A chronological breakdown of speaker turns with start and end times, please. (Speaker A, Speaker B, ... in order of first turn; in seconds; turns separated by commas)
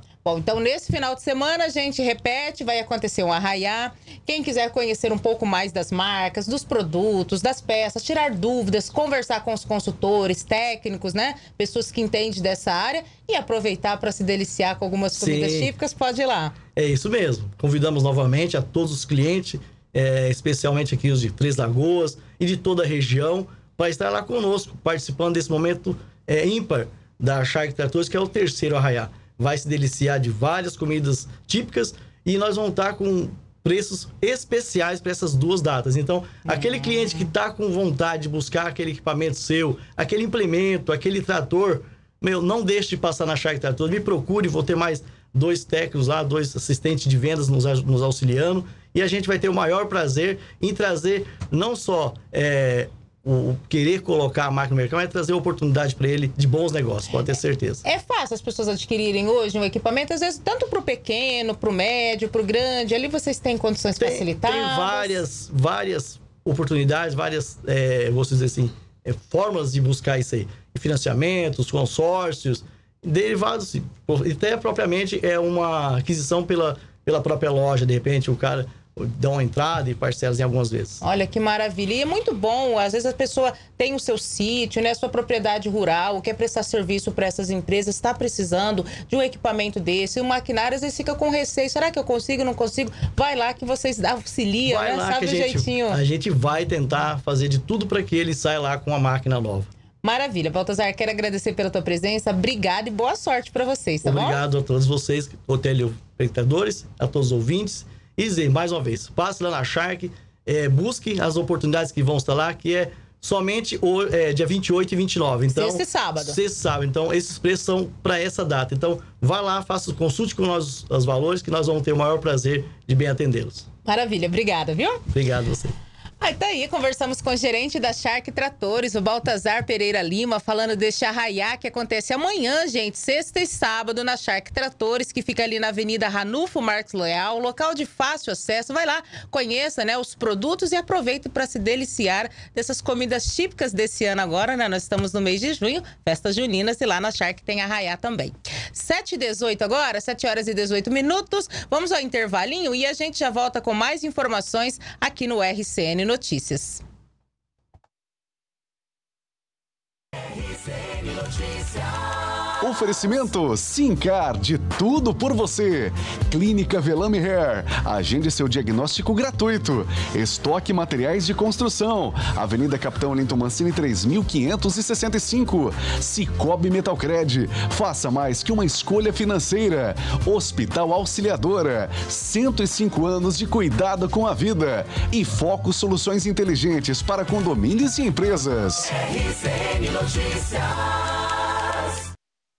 Speaker A: 0.2-16.6, Speaker B: 15.1-15.7, Speaker B: 16.8-57.8, Speaker A: 57.9-65.2, Speaker B: 64.0-81.0, Speaker A: 81.0-96.0, Speaker B: 94.7-99.7, Speaker A: 100.0-104.4, Speaker B: 104.0-123.7, Speaker A: 115.5-116.4, Speaker A: 123.9-125.0, Speaker B: 125.1-125.7, Speaker A: 126.2-156.8, Speaker C: 162.6-188.9